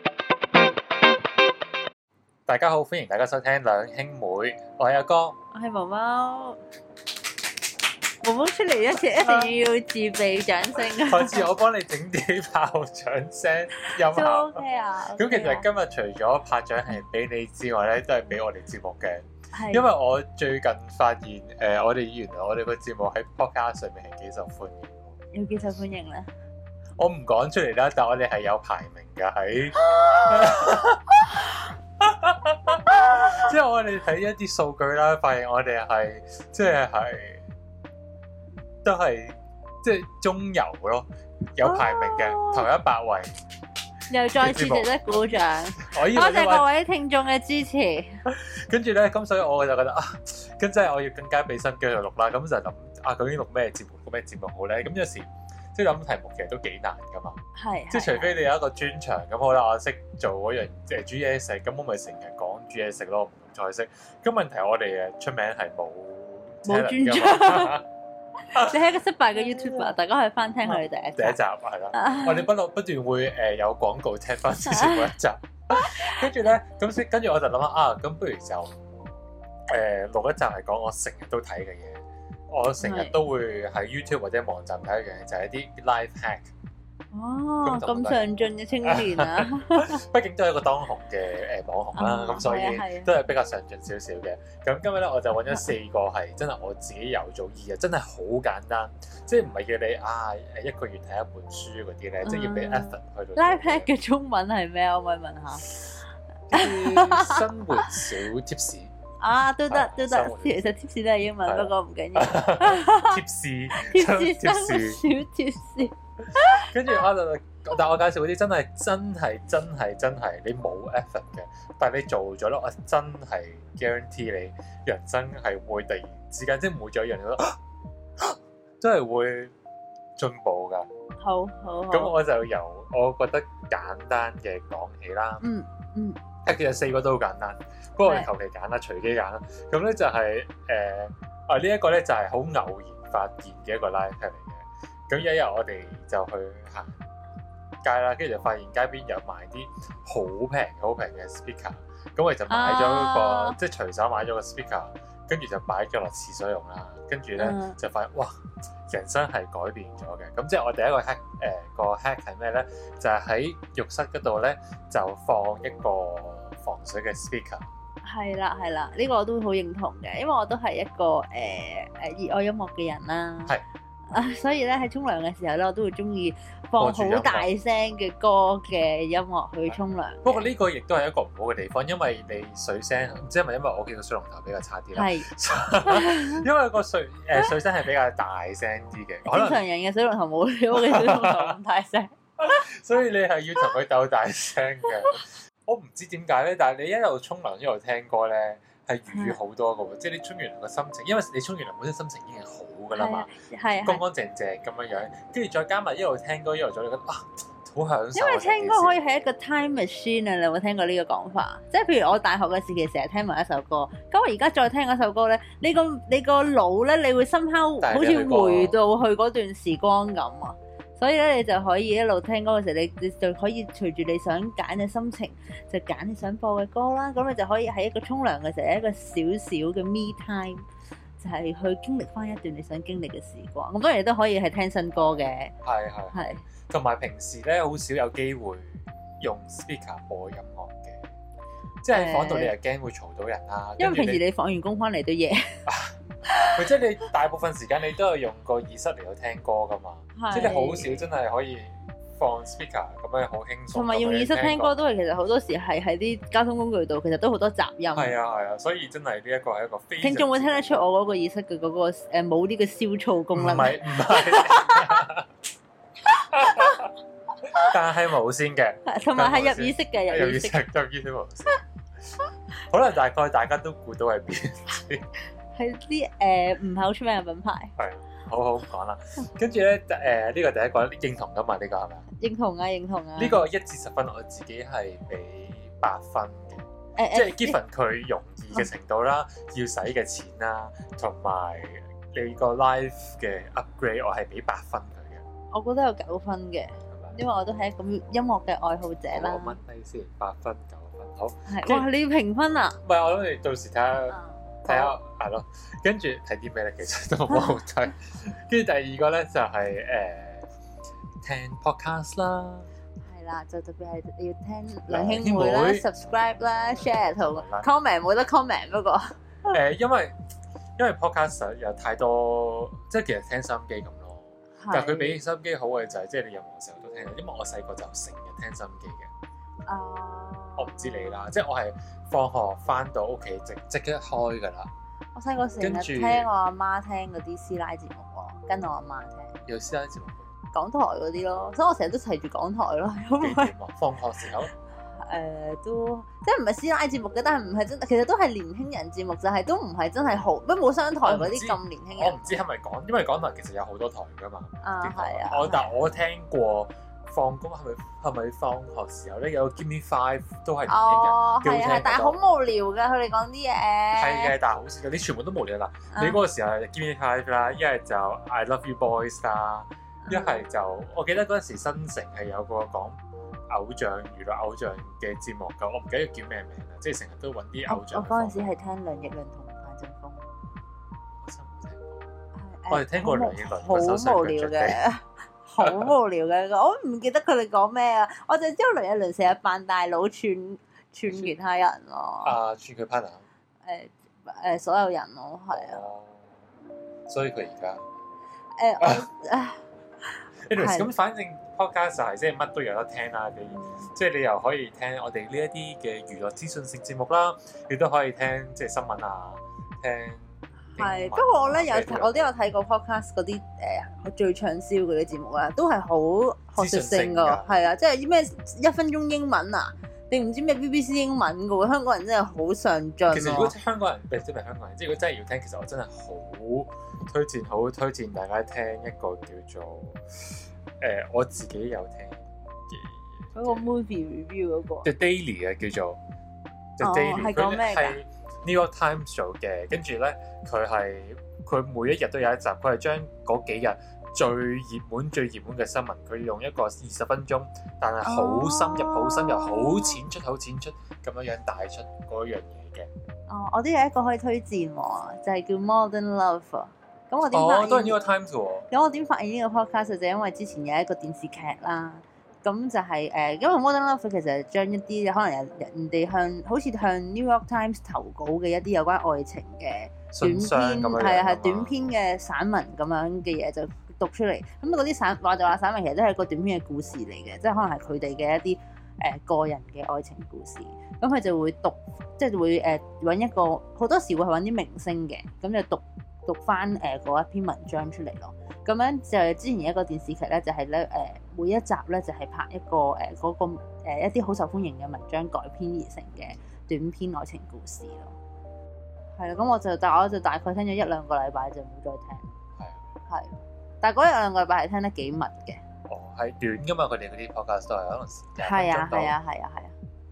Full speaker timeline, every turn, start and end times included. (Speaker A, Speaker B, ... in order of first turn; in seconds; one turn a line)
Speaker A: 2.5-5.4
Speaker B: 5.5-6.6
Speaker B: 8.2-11.5
Speaker A: 9.2-9.5
Speaker A: 10.8-14.6
Speaker B: 13.8-15.7
Speaker A: 15.1-25.2
Speaker B: 19.5-19.9
Speaker B: 25.3-26.3
Speaker A: 27.0-37.4
Speaker B: 30.0-30.5
Speaker B: 32.9-33.5
Speaker A: 38.8-43.3
Speaker B: 41.6-42.7
Speaker B: 44.1-48.2
Speaker A: 44.3-45.1
Speaker A: 45.8-46.7
Speaker A: 48.3-67.8
Speaker B: 57.5-58.4
Speaker B: 66.6-67.8
Speaker B: 68.5-71.4
Speaker A: 68.5-69.9
Speaker A: 70.7-78.8
Speaker B: 71.9-72.5
Speaker B: 74.6-75.1
Speaker B: 75.7-76.2
Speaker A: 79.7-86.5
Speaker B: 82.8-83.2
Speaker B: 87.1-90.0
Speaker A: 87.6-88.3
Speaker A: 88.8-103.9
Speaker B: 91.9-93.1
Speaker B: 102.2-105.7
Speaker A: 106.5-108.9
Speaker B: 106.5-108.0
Speaker B: 109.2-117.0
Speaker A: 109.7-110.7
Speaker A: 111.5-115.0
Speaker A: 116.3-127.6
Speaker A: 128.2-129.5
Speaker A: 130.2-130.9
Speaker B: 131.2-132.2
Speaker A: 131.9-135.4
Speaker B: 135.4-136.2
Speaker A: 136.4-147.0
Speaker A: 147.8-167.7
Speaker B: 152.5-153.6
Speaker B: 157.4-157.8
Speaker B: 168.0-173.6
Speaker B: 174.1-180.4
Speaker A: 176.8-177.5
Speaker A: 180.2-189.6
Speaker B: 184.9-185.3
Speaker B: 185.8-186.5
Speaker B: 189.2-192.6
Speaker A: 190.7-191.6
Speaker A: 192.4-203.3
Speaker B: 199.1-199.4
Speaker B: 202.9-204.0
Speaker A: 203.8-209.0
Speaker B: 208.2-230.7
Speaker A: 217.8-218.8
Speaker B: 231.2-235.5
Speaker A: 235.0-241.1
Speaker B: 236.1-236.5
Speaker A: 241.8-244.2
Speaker B: 241.9-242.5
Speaker B: 243.8-245.6
Speaker A: 245.7-254.8
Speaker B: 246.2-246.6
Speaker B: 250.2-251.1
Speaker B: 253.7-258.2
Speaker A: 257.9-260.9
Speaker B: 260.0-265.0
Speaker A: 263.3-265.3
Speaker B: 266.1-266.8
Speaker A: 266.3-266.9
Speaker A: 267.4-271.6
Speaker B: 268.9-270.6
Speaker A: 272.5-275.1
Speaker B: 275.6-277.7
Speaker A: 277.8-282.1
Speaker B: 282.2-283.4
Speaker A: 283.2-295.2
Speaker B: 287.0-287.6
Speaker B: 295.5-299.6
Speaker A: 296.9-297.2
Speaker A: 299.1-301.9
Speaker B: 301.5-302.8
Speaker A: 302.8-310.5
Speaker B: 304.1-304.9
Speaker B: 307.3-307.6
Speaker A: 311.2-312.7
Speaker B: 313.1-319.6
Speaker A: 314.9-315.9
Speaker A: 316.7-317.7
Speaker A: 319.5-320.1
Speaker A: 320.8-329.1
Speaker B: 324.6-325.2
Speaker B: 329.7-331.3
Speaker A: 330.6-334.7
Speaker B: 335.1-339.4
Speaker A: 335.6-336.3
Speaker A: 339.4-340.3
Speaker B: 340.5-343.5
Speaker A: 343.2-344.5
Speaker B: 344.9-352.2
Speaker A: 351.0-362.2
Speaker B: 354.6-355.7
Speaker B: 360.7-364.3
Speaker A: 363.9-373.0
Speaker B: 365.9-366.2
Speaker B: 370.0-370.4
Speaker A: 373.5-378.6
Speaker B: 377.7-380.4
Speaker A: 381.2-382.1
Speaker B: 382.4-392.4
Speaker A: 382.7-384.8
Speaker A: 385.6-385.9
Speaker A: 391.1-391.3
Speaker A: 392.2-393.2
Speaker B: 393.6-395.8
Speaker A: 395.5-396.3
Speaker A: 397.1-397.9
Speaker B: 398.6-400.9
Speaker A: 398.8-399.1
Speaker A: 400.5-412.3
Speaker B: 403.5-403.9
Speaker B: 410.8-423.6
Speaker A: 416.6-417.6
Speaker A: 423.1-433.7
Speaker B: 433.4-434.9
Speaker A: 434.8-436.0
Speaker A: 436.8-452.9
Speaker B: 436.8-438.0
Speaker B: 448.1-450.0
Speaker B: 453.3-458.0
Speaker A: 457.3-458.7
Speaker B: 458.7-498.2
Speaker A: 470.1-471.7
Speaker B: 499.2-502.3
Speaker A: 502.6-502.8
Speaker B: 503.1-505.6
Speaker A: 505.9-509.1
Speaker B: 508.4-509.8